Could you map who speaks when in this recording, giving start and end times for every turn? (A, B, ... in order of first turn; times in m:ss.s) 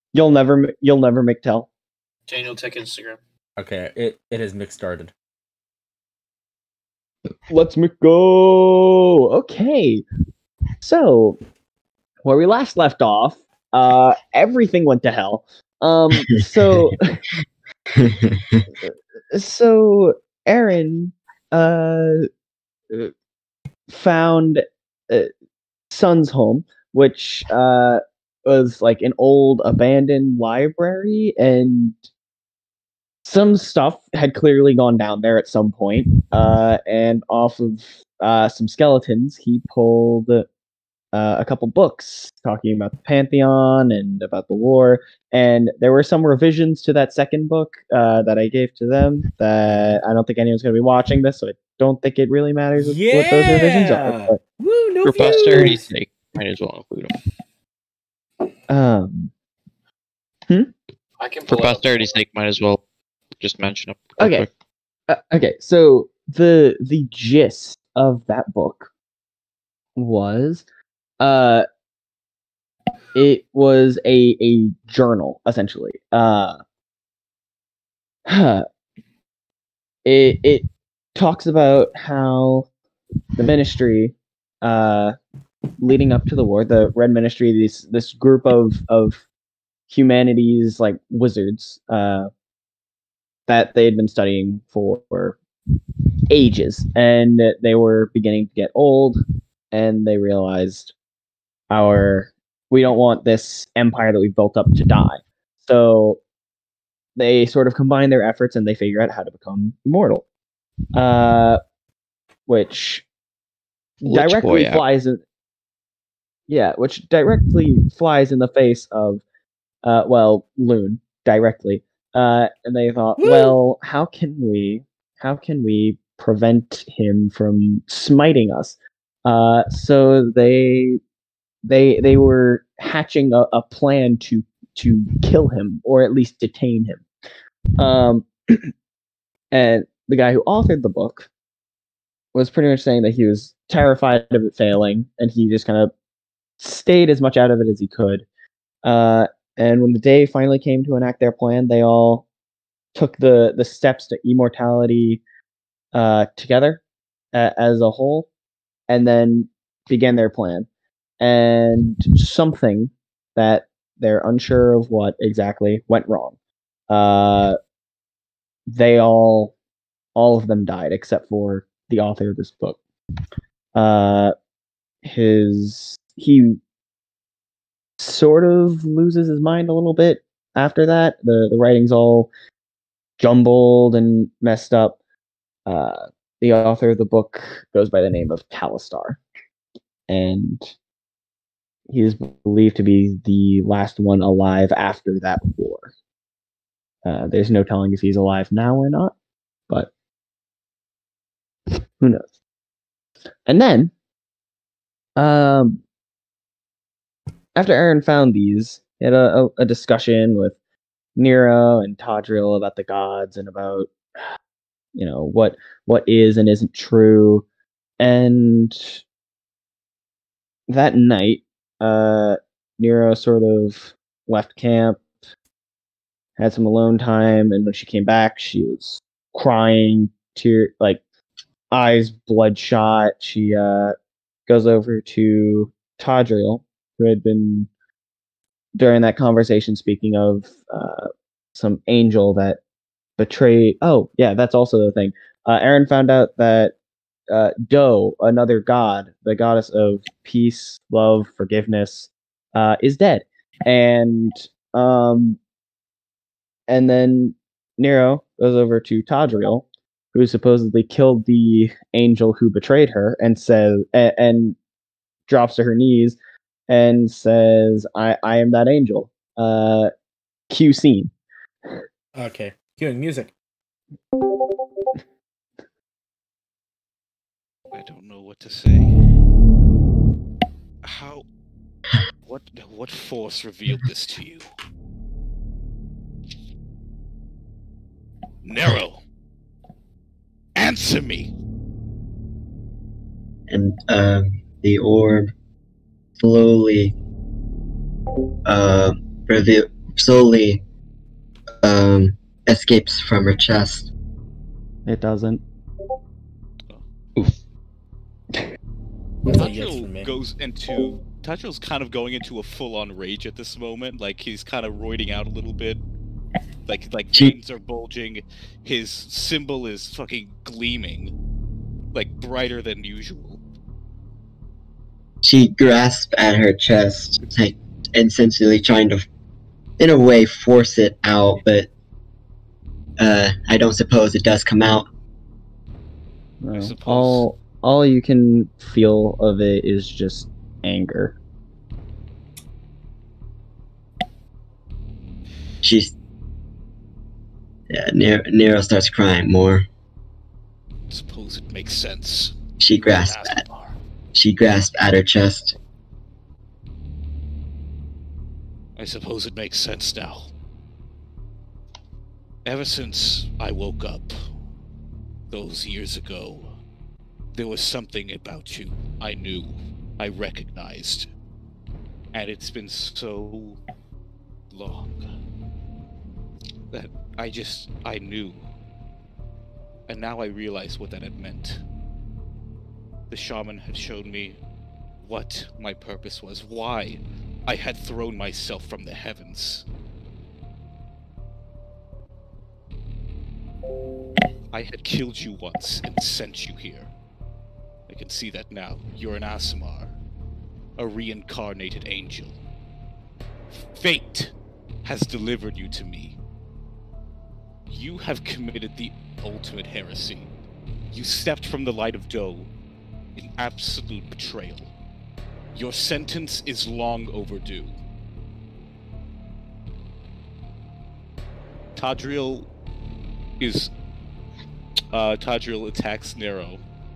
0:00.1-0:01.7 A
0:02.3-0:03.2 B
0:03.6-0:05.1 C
0:07.5-0:10.0 A
0:10.8-0:11.4 A
0:12.2-0:17.2 A
0:17.9-0:18.7 D
0:18.8-0:22.3 A
0:23.9-0:25.3 A
0:25.9-0:32.0 A
0:33.2-0:40.5 A
0:41.1-0:54.4 A
0:49.6-0:50.0 C
0:52.8-0:55.8 C
0:55.0-0:57.2 E
0:58.7-0:59.3 A
1:01.2-1:02.2 B
1:01.5-1:02.8 E
1:03.4-1:04.5 E
1:04.2-1:04.5 A
1:05.1-1:08.9 A
1:10.0-1:10.6 A
1:11.2-1:11.6 A
1:13.1-1:16.6 A
1:18.2-1:18.6 A
1:20.0-1:22.7 A
1:23.4-1:25.2 A
1:25.8-1:29.2 A
1:29.9-1:32.3 A
1:33.5-1:35.4 A
1:36.3-1:39.2 A
1:39.7-1:40.9 A
1:41.7-1:46.2 A
1:47.2-1:50.2 A
1:50.9-1:51.6 A
1:52.5-1:53.0 A
1:54.0-1:54.8 E
1:54.0-1:55.2 A
1:56.5-1:59.2 A
1:59.8-2:11.0 A
2:03.2-2:03.6 C
2:11.6-2:17.0 A
2:17.8-2:18.7 A
2:19.5-2:21.3 A
2:22.3-2:25.9 A
2:26.6-2:28.2 A
2:28.8-2:32.3 A
2:32.9-2:35.2 A
2:35.9-2:36.8 A
2:37.3-2:38.3 A
2:38.9-2:40.7 A
2:41.2-2:46.4 A
2:46.9-2:47.6 A
2:48.7-2:49.5 A
2:50.2-2:52.8 A
2:53.7-2:54.3 A
2:55.0-2:56.6 A
2:58.0-3:02.3 A
3:03.2-3:05.0 A
3:05.7-3:09.2 A
3:10.1-3:10.7 A
3:11.9-3:15.9 A
3:17.0-3:19.1 A
3:23.5-3:23.9 A
3:25.2-3:25.8 A
3:27.5-3:30.5 A
3:31.2-3:33.9 A
3:34.9-3:37.4 A
3:38.0-3:39.0 A
3:40.7-3:45.0 A
3:46.4-3:51.0 A
3:51.7-3:53.9 A
3:54.5-3:57.7 A
3:58.7-4:02.6 A
4:03.2-4:06.7 A
4:07.3-4:15.4 A
4:16.7-4:24.6 A
4:25.3-4:26.2 A
4:26.7-4:29.9 A
4:30.5-4:31.1 A
4:32.1-4:33.3 C
4:37.7-4:39.0 F
4:40.8-4:41.2 F
4:42.2-4:44.5 F
4:48.4-4:49.0 F
4:50.5-4:51.3 F
4:53.5-4:55.3 D
4:56.2-4:56.9 D
4:58.4-5:00.6 D
5:01.6-5:03.9 D
5:04.8-5:05.4 A
5:09.2-5:10.2 C
5:09.2-5:15.8 F
5:16.6-5:21.1 F
5:21.9-5:23.4 F
5:25.2-5:29.0 D
5:29.8-5:31.7 D
5:33.0-5:34.9 D
5:36.4-5:41.2 A
5:36.5-5:37.3 F
5:45.6-5:45.9 D
5:47.7-5:49.6 D
5:50.9-5:53.8 F
5:52.6-5:53.4 D
5:54.1-5:55.5 D
5:58.8-6:00.3 F
6:02.4-6:04.3 F
6:05.3-6:06.5 F
6:07.3-6:11.1 F
6:12.1-6:13.6 F
6:14.5-6:15.1 F
6:16.7-6:18.5 F
6:19.9-6:21.6 F
6:23.1-6:24.4 F
6:25.0-6:29.6 F
6:34.5-6:36.9 F
6:37.9-6:39.9 F
6:40.8-6:42.4 F
6:43.5-6:46.2 F
6:47.7-6:50.3 F
6:50.9-6:52.5 F
6:53.2-6:54.7 F
6:55.5-6:57.7 F
7:01.8-7:02.5 F
7:03.4-7:03.7 F
7:04.9-7:06.6 F